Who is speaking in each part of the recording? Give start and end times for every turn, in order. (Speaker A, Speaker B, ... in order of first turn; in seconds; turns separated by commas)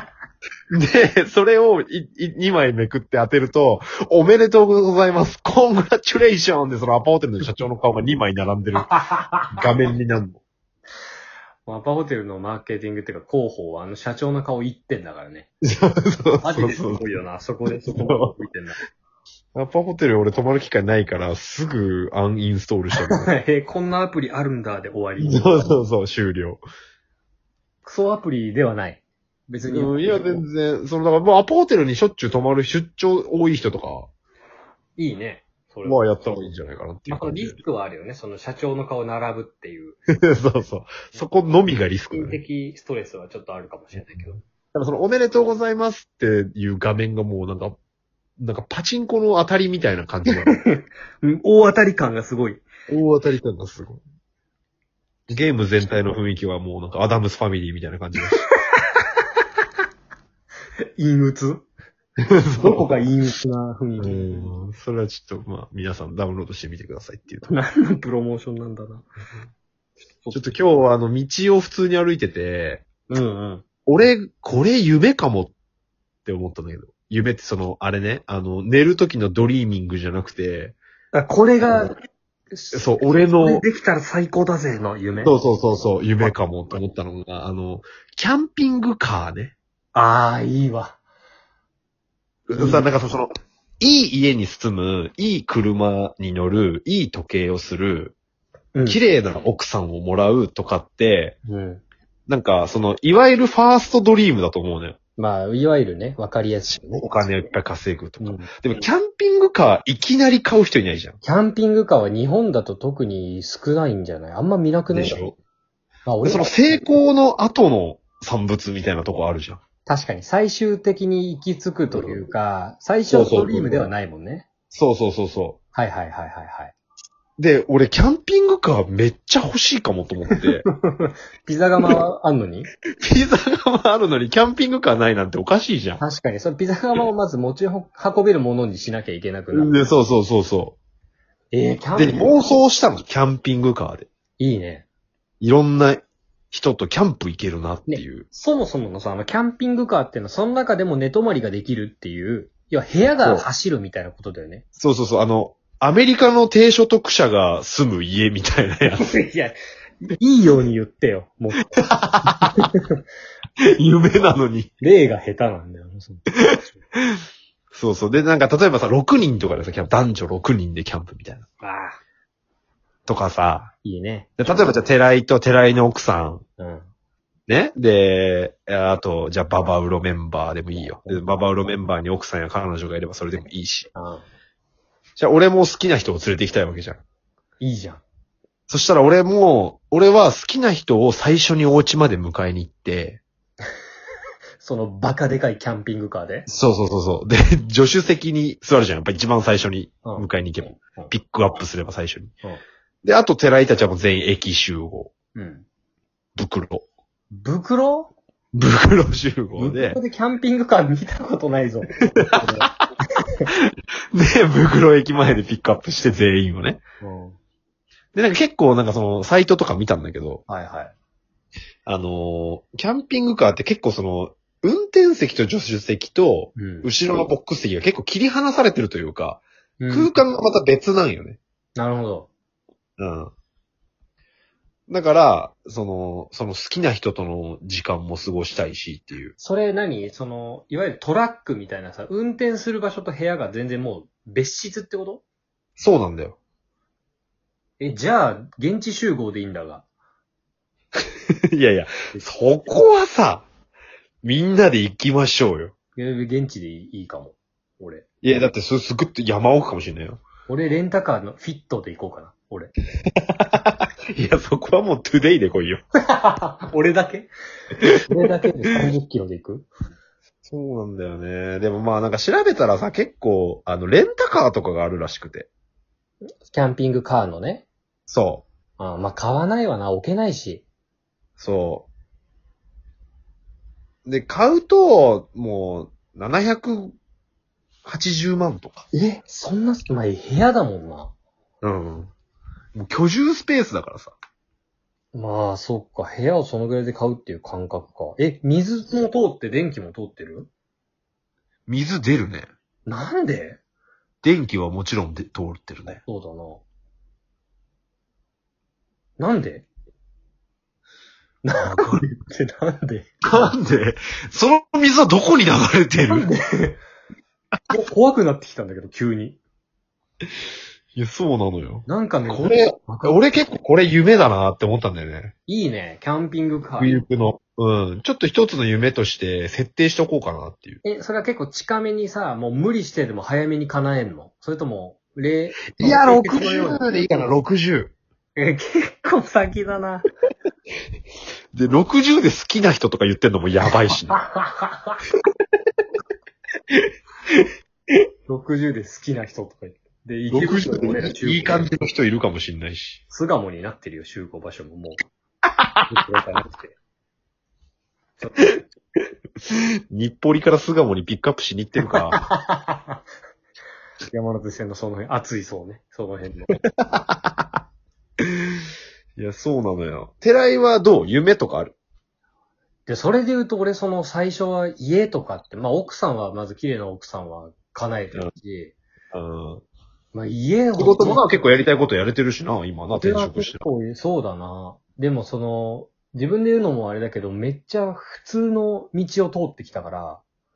Speaker A: 0.7-8.9, Speaker B: 8.8-9.5, Speaker A: 9.5-10.4, Speaker B: 11.7-15.5, Speaker A: 15.6-18.4, Speaker B: 16.4-18.8, Speaker A: 19.5-23.3, Speaker B: 23.0-25.7, Speaker A: 25.2-26.6, Speaker B: 27.8-30.4, Speaker A: 29.7-34.1, Speaker B: 35.0-36.0, Speaker A: 35.8-37.6, Speaker B: 37.1-40.0, Speaker A: 40.2-42.4, Speaker B: 42.1-44.4, Speaker A: 44.0-47.8, Speaker A: 48.4-50.5, Speaker B: 50.3-52.6, Speaker A: 52.9-54.0, Speaker A: 55.3-58.4, Speaker B: 61.0-61.6, Speaker A: 62.3-62.9, Speaker B: 62.5-64.5, Speaker A: 64.0-67.5, Speaker B: 67.5-69.1, Speaker B: 70.2-70.6, Speaker A: 70.3-72.8, Speaker B: 73.1-73.6, Speaker A: 73.8-75.5, Speaker A: 76.2-80.8, Speaker B: 81.1-82.0, Speaker B: 82.5-85.4, Speaker A: 82.7-83.6, Speaker A: 85.2-89.5, Speaker B: 86.2-86.8, Speaker B: 89.9-91.0, Speaker A: 92.5-98.1, Speaker B: 92.5-92.9, Speaker B: 98.7-99.0, Speaker A: 98.8-101.3, Speaker B: 101.5-101.8, Speaker A: 102.3-105.0, Speaker B: 105.2-107.3, Speaker A: 106.7-111.2, Speaker B: 108.2-108.5, Speaker B: 111.2-115.2, Speaker A: 114.9-115.3, Speaker B: 116.0-116.6, Speaker A: 116.2-119.6, Speaker B: 119.8-124.5, Speaker A: 121.9-122.2, Speaker A: 123.1-123.9, Speaker A: 124.7-125.6, Speaker B: 125.7-126.7, Speaker A: 127.4-130.7, Speaker B: 130.4-132.7, Speaker A: 133.0-136.0, Speaker B: 136.0-139.8, Speaker A: 139.5-140.8, Speaker B: 141.5-142.4, Speaker A: 141.9-144.1, Speaker B: 144.4-144.8, Speaker A: 145.4-148.2, Speaker B: 147.9-154.6, Speaker A: 153.2-153.5, Speaker A: 154.8-159.1, Speaker B: 159.0-163.0, Speaker A: 161.8-162.5, Speaker A: 163.7-164.7, Speaker B: 164.8-166.8, Speaker A: 167.7-171.4, Speaker B: 171.6-172.0, Speaker A: 173.1-173.7, Speaker B: 173.8-174.7, Speaker A: 174.4-176.4, Speaker B: 176.6-176.9, Speaker A: 177.5-183.9, Speaker B: 183.9-184.2, Speaker A: 185.2-187.0, Speaker B: 187.6-188.0, Speaker A: 188.7-193.2, Speaker B: 194.6-196.5, Speaker A: 196.5-202.3, Speaker B: 200.0-201.1, Speaker A: 203.0-205.1, Speaker B: 205.3-205.7, Speaker A: 206.3-206.8, Speaker B: 207.3-208.1, Speaker A: 208.5-210.0, Speaker B: 209.5-212.7, Speaker A: 212.2-212.8, Speaker A: 214.1-216.8, Speaker B: 217.0-217.4, Speaker A: 218.1-220.4, Speaker B: 220.5-220.9, Speaker A: 221.8-231.4, Speaker B: 226.5-226.9, Speaker B: 229.8-230.2, Speaker B: 231.8-232.3, Speaker A: 233.0-233.3, Speaker A: 234.9-239.3, Speaker B: 239.4-245.2, Speaker A: 245.8-246.4, Speaker B: 247.8-249.8, Speaker A: 251.5-253.5, Speaker A: 254.2-255.7, Speaker B: 255.9-258.0, Speaker A: 258.2-260.2, Speaker B: 260.5-262.7, Speaker A: 263.4-265.8, Speaker B: 266.1-267.3, Speaker A: 267.8-268.3, Speaker B: 267.9-269.7, Speaker A: 270.4-275.5, Speaker B: 276.4-277.6, Speaker A: 278.1-278.4, Speaker B: 278.8-280.6, Speaker A: 281.4-281.9, Speaker A: 284.0-286.9, Speaker A: 287.8-288.9, Speaker B: 288.9-291.1, Speaker A: 291.6-292.1, Speaker A: 292.7-294.1, Speaker B: 295.1-300.5, Speaker A: 301.7-302.5, Speaker B: 302.9-303.6, Speaker A: 304.2-306.0, Speaker B: 305.9-306.6, Speaker B: 309.2-309.7, Speaker B: 311.4-313.5, Speaker A: 311.5-312.0, Speaker A: 313.2-316.3, Speaker B: 316.1-316.8, Speaker B: 317.7-319.4, Speaker A: 320.9-325.3, Speaker B: 321.9-323.2, Speaker B: 325.5-326.9, Speaker A: 326.8-330.8, Speaker B: 330.8-337.3, Speaker A: 335.8-337.9, Speaker B: 338.4-340.1, Speaker A: 341.5-344.2, Speaker B: 344.1-345.0, Speaker A: 346.7-347.4, Speaker B: 348.3-351.7, Speaker A: 350.3-353.0, Speaker B: 353.1-355.0, Speaker A: 355.6-355.9, Speaker B: 355.9-356.7, Speaker B: 358.2-358.5, Speaker A: 359.9-362.2, Speaker B: 361.9-363.0, Speaker B: 364.1-366.6, Speaker A: 366.9-367.3, Speaker A: 369.1-371.7, Speaker B: 372.9-378.7, Speaker A: 379.1-379.6, Speaker B: 380.1-381.4, Speaker A: 380.8-383.6, Speaker B: 383.0-390.2